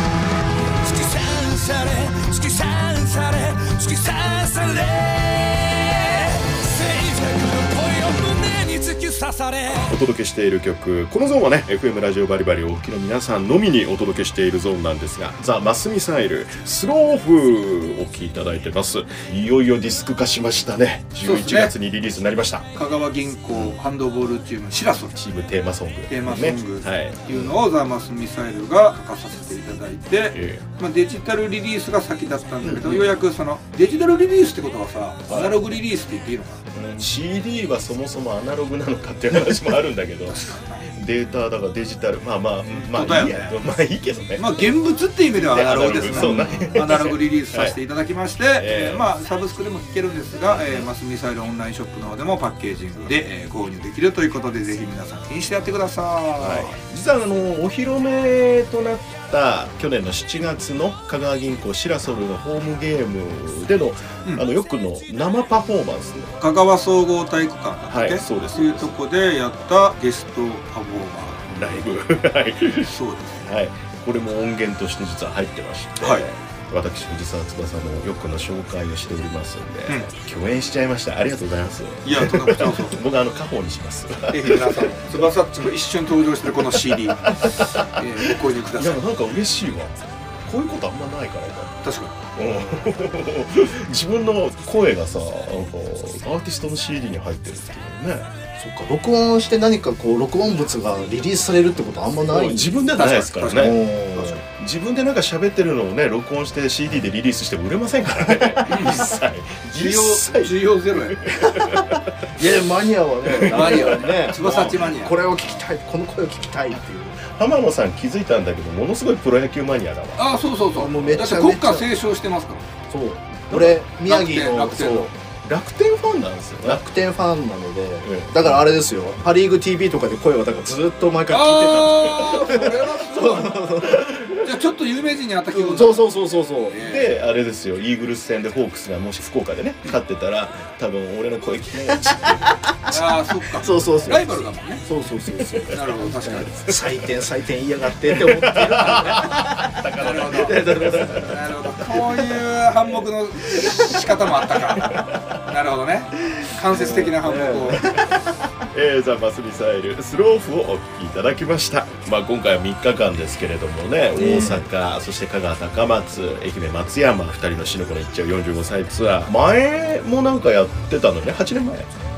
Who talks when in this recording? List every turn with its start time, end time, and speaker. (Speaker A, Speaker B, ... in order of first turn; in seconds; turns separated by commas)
Speaker A: 0.8-9.9, Speaker B: 9.9-22.6, Speaker C: 21.2-21.7, Speaker C: 22.7-25.1, Speaker B: 25.1-27.6, Speaker C: 26.1-36.7, Speaker B: 30.3-30.6, Speaker B: 32.6-33.1, Speaker B: 35.3-35.7, Speaker B: 36.7-44.7, Speaker C: 40.3-40.8, Speaker C: 42.7-43.5, Speaker C: 44.4-56.8, Speaker B: 45.3-47.8, Speaker D: 46.1-46.8, Speaker B: 48.6-49.0, Speaker B: 50.5-50.9, Speaker B: 56.4-66.3, Speaker C: 66.4-71.5, Speaker B: 67.9-68.9, Speaker B: 71.5-72.9, Speaker C: 72.8-73.5, Speaker B: 73.4-85.0, Speaker C: 82.0-83.0, Speaker C: 84.3-89.0, Speaker B: 87.3-91.8, Speaker C: 91.8-92.1, Speaker B: 92.3-98.3, Speaker D: 98.6-102.7, Speaker B: 102.3-103.8, Speaker C: 102.9-104.4, Speaker D: 103.5-104.4, Speaker B: 104.4-110.5, Speaker D: 108.2-108.7, Speaker C: 108.7-109.0, Speaker C: 109.7-111.2, Speaker B: 111.2-112.0, Speaker D: 111.6-117.2, Speaker B: 113.3-114.8, Speaker C: 113.4-115.2, Speaker B: 117.2-120.2, Speaker C: 120.2-122.6, Speaker D: 120.7-121.9, Speaker D: 122.9-125.1, Speaker B: 123.5-123.8, Speaker C: 123.9-125.1, Speaker B: 125.4-126.8, Speaker D: 126.6-134.3, Speaker B: 128.0-128.6, Speaker C: 131.3-133.7, Speaker B: 134.0-134.4, Speaker C: 134.4-136.1, Speaker D: 135.7-136.8, Speaker C: 136.7-137.1, Speaker B: 136.8-142.5, Speaker D: 142.1-149.7, Speaker C: 142.9-144.8, Speaker C: 145.7-146.5, Speaker B: 146.2-146.8, Speaker B: 148.1-151.4, Speaker C: 148.7-149.3, Speaker C: 150.0-157.9, Speaker D: 150.3-151.3, Speaker B: 154.8-155.2, Speaker D: 156.7-158.2, Speaker B: 158.7-171.9, Speaker D: 164.1-164.7